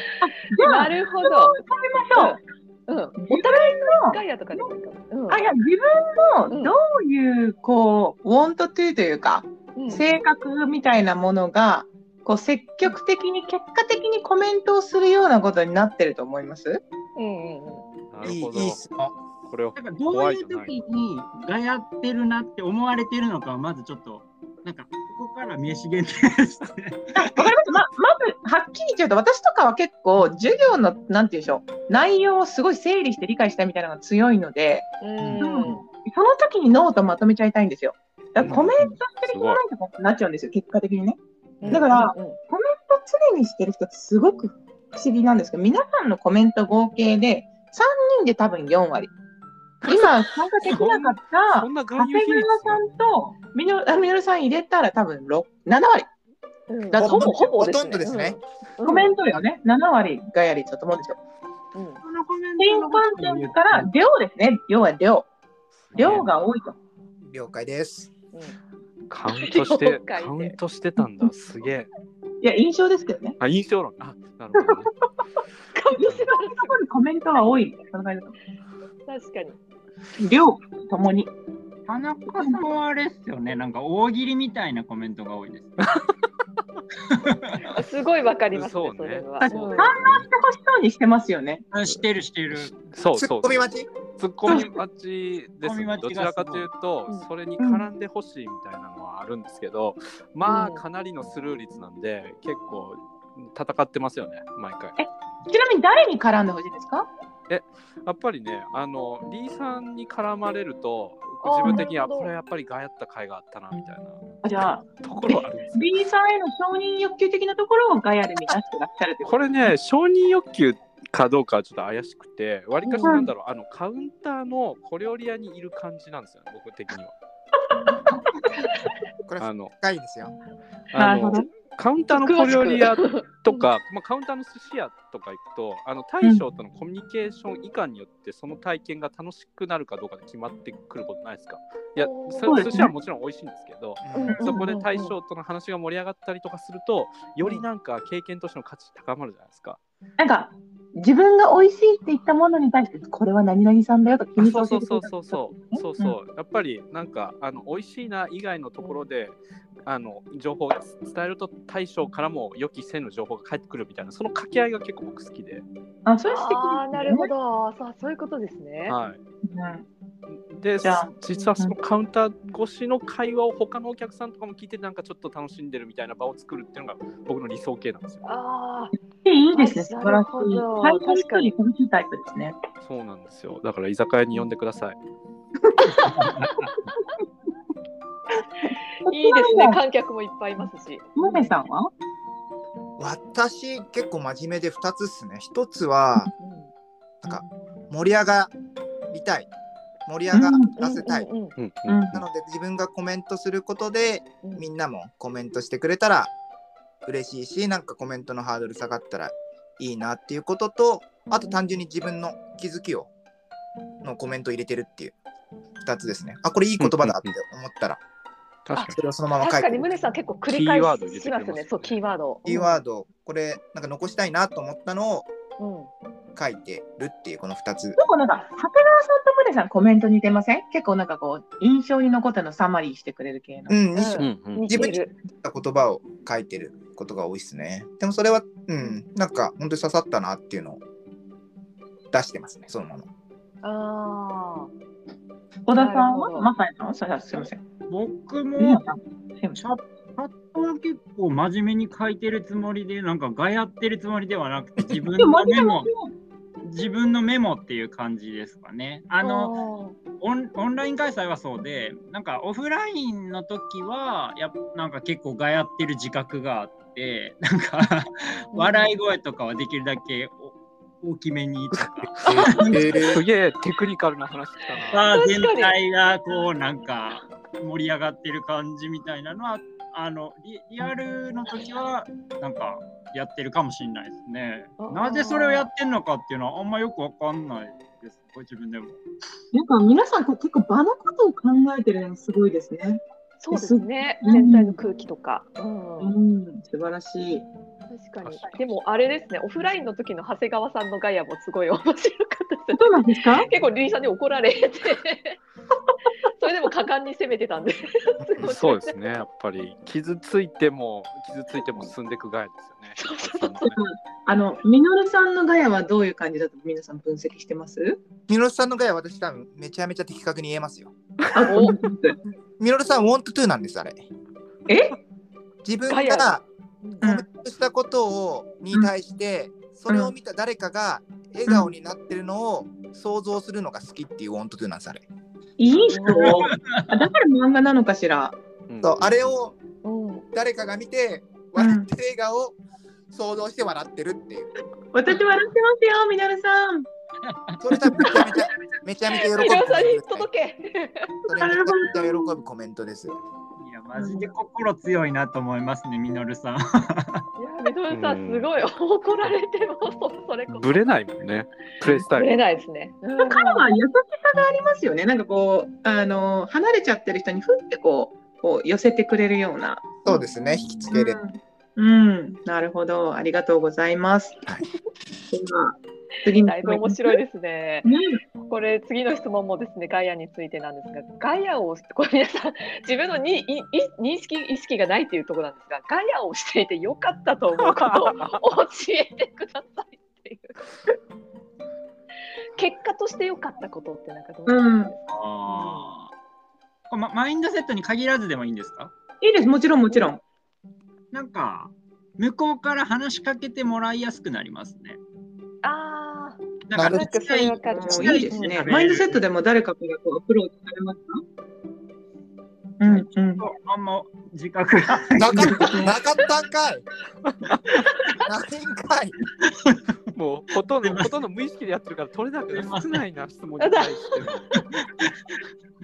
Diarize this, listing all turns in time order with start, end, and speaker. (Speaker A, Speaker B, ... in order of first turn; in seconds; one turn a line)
Speaker A: 0.2-2.4
Speaker B: 0.6-1.6
Speaker B: 2.1-5.4
Speaker A: 3.2-4.7
Speaker A: 5.3-16.8
Speaker B: 6.5-6.8
Speaker B: 9.8-10.1
Speaker B: 17.2-17.8
Speaker C: 18.1-18.8
Speaker D: 18.2-19.1
Speaker C: 19.5-20.8
Speaker E: 19.8-27.5
Speaker A: 27.2-34.9
Speaker B: 35.0-35.8
Speaker A: 35.4-49.1
Speaker C: 38.4-39.6
Speaker D: 38.4-38.9
Speaker C: 41.6-42.0
Speaker B: 41.7-42.4
Speaker C: 49.8-52.9
Speaker A: 49.9-56.1
Speaker B: 56.7-59.1
Speaker A: 56.9-57.3
Speaker D: 57.0-58.4
Speaker A: 58.8-61.2
Speaker B: 61.7-62.0
Speaker E: 62.0-63.9
Speaker A: 62.6-65.3
Speaker C: 65.8-66.4
Speaker A: 66.0-66.8
Speaker D: 67.3-68.1
Speaker C: 69.1-71.9
Speaker B: 69.3-70.6
Speaker A: 72.4-73.4
Speaker C: 73.4-74.9
Speaker A: 74.6-74.9
Speaker B: 75.8-76.8
Speaker C: 76.0-76.3
Speaker A: 76.6-78.3
Speaker B: 79.1-79.6
Speaker A: 80.2-81.3
Speaker E: 81.9-85.8
Speaker A: 82.4-82.6
Speaker C: 85.8-86.1
Speaker E: 87.1-87.6
Speaker B: 87.6-90.0
Speaker C: 88.5-90.2
Speaker A: 89.4-91.7
Speaker E: 91.7-92.8
Speaker C: 92.5-105.0
Speaker D: 93.1-93.9
Speaker E: 95.6-96.7
Speaker A: 97.6-97.8
Speaker B: 100.5-100.8
Speaker A: 105.0-107.1
Speaker C: 107.5-114.2
Speaker B: 111.4-112.3
Speaker A: 111.6-111.9
Speaker A: 114.4-119.4
Speaker C: 114.8-116.0
Speaker C: 119.2-127.1
Speaker B: 122.8-123.2
Speaker A: 123.0-123.3
Speaker D: 129.3-130.3
Speaker C: 129.4-129.7
Speaker C: 130.9-149.8
Speaker A: 130.9-131.5
Speaker B: 132.1-133.7
Speaker B: 142.0-142.8
Speaker A: 142.4-142.9
Speaker D: 144.0-144.4
Speaker B: 144.1-145.2
Speaker A: 150.2-156.2
Speaker C: 154.4-165.7
Speaker B: 158.8-159.1
Speaker A: 166.1-167.3
Speaker B: 166.2-169.0
Speaker C: 168.9-169.2
Speaker A: 169.4-169.9
Speaker C: 170.3-178.2
Speaker A: 170.8-171.8
Speaker B: 178.2-178.9
Speaker A: 179.2-182.6
Speaker B: 179.5-181.5
Speaker C: 182.8-185.0
Speaker E: 185.9-186.8
Speaker B: 189.1-191.6
Speaker A: 189.1-189.8
Speaker A: 191.2-191.9
Speaker D: 193.0-196.3
Speaker B: 196.4-196.7
Speaker D: 197.2-198.5
Speaker D: 199.1-199.5
Speaker D: 200.1-201.3
Speaker A: 200.3-200.7
Speaker B: 200.8-201.6
Speaker C: 201.6-202.2
Speaker A: 201.9-202.2
Speaker D: 202.1-206.3
Speaker D: 207.1-213.1
Speaker D: 214.0-215.2
Speaker D: 215.8-218.0
Speaker C: 216.8-217.3
Speaker C: 218.7-219.0
Speaker D: 218.8-220.2
Speaker B: 219.4-222.5
Speaker C: 220.5-222.2
Speaker D: 222.4-225.3
Speaker B: 225.6-225.9
Speaker D: 226.4-228.0
Speaker A: 228.0-233.8
Speaker D: 233.7-240.8
Speaker B: 233.9-235.1
Speaker C: 234.2-234.7
Speaker D: 242.1-243.1
Speaker B: 243.6-244.7
Speaker A: 245.7-247.6
Speaker B: 245.8-246.5
Speaker E: 247.9-248.8
Speaker A: 248.6-249.6
Speaker E: 249.6-255.9
Speaker A: 255.0-256.1
Speaker E: 256.6-259.6
Speaker B: 259.2-260.0
Speaker E: 260.2-273.0
Speaker B: 268.5-268.9
Speaker C: 271.7-275.1
Speaker D: 272.2-273.2
Speaker E: 274.9-289.0
Speaker B: 275.1-275.8
Speaker B: 284.8-285.7
Speaker A: 289.5-294.8
Speaker B: 293.4-296.1
Speaker A: 296.0-297.4
Speaker B: 297.9-305.4
Speaker C: 298.2-298.6
Speaker A: 302.7-303.5
Speaker B: 306.4-308.9
Speaker D: 308.2-308.5
Speaker C: 308.4-313.8
Speaker B: 313.0-313.7
Speaker A: 313.7-318.0
Speaker D: 318.3-320.9
Speaker C: 321.2-321.5
Speaker A: 321.3-322.2
Speaker B: 321.5-321.8
Speaker D: 322.6-324.0
Speaker A: 324.7-325.0
Speaker D: 325.6-326.4
Speaker B: 325.9-327.1
Speaker D: 327.0-335.0
Speaker A: 329.9-330.1
Speaker A: 331.5-331.7
Speaker A: 335.6-338.4
Speaker B: 335.9-336.5
Speaker E: 336.2-336.9
Speaker C: 338.7-339.4
Speaker D: 338.8-339.6
Speaker B: 339.8-340.2
Speaker D: 340.3-342.6
Speaker A: 341.6-341.9
Speaker D: 343.1-344.5
Speaker A: 344.9-346.9
Speaker E: 347.3-347.6
Speaker D: 347.6-350.3
Speaker A: 347.9-348.3
Speaker B: 349.3-351.1
Speaker D: 351.3-353.1
Speaker A: 351.4-352.3
Speaker E: 353.6-357.2
Speaker A: 353.9-354.3
Speaker B: 357.4-360.8
Speaker C: 357.9-358.5
Speaker C: 360.5-362.3
Speaker B: 361.9-363.7
Speaker A: 363.2-374.4
Speaker D: 370.0-371.2
Speaker A: 375.3-377.2
Speaker B: 376.4-377.9
Speaker A: 377.9-378.2
Speaker B: 378.5-390.6
Speaker C: 387.6-388.4
Speaker B: 392.6-395.9
Speaker A: 394.5-394.9
Speaker E: 395.1-396.1
Speaker E: 396.9-398.9
Speaker A: 399.2-400.2
Speaker E: 401.1-405.0
Speaker B: 405.6-408.6
Speaker E: 406.7-409.2
Speaker D: 406.8-407.1
Speaker A: 407.7-411.2
Speaker A: 412.8-413.4
Speaker E: 412.8-415.6
Speaker D: 415.2-416.9
Speaker A: 415.2-416.0
Speaker C: 417.2-417.9
Speaker D: 418.2-419.1
Speaker E: 419.4-419.8
Speaker C: 420.1-424.5
Speaker E: 420.8-421.1
Speaker E: 422.5-423.0
Speaker B: 423.6-423.9
Speaker E: 424.6-425.4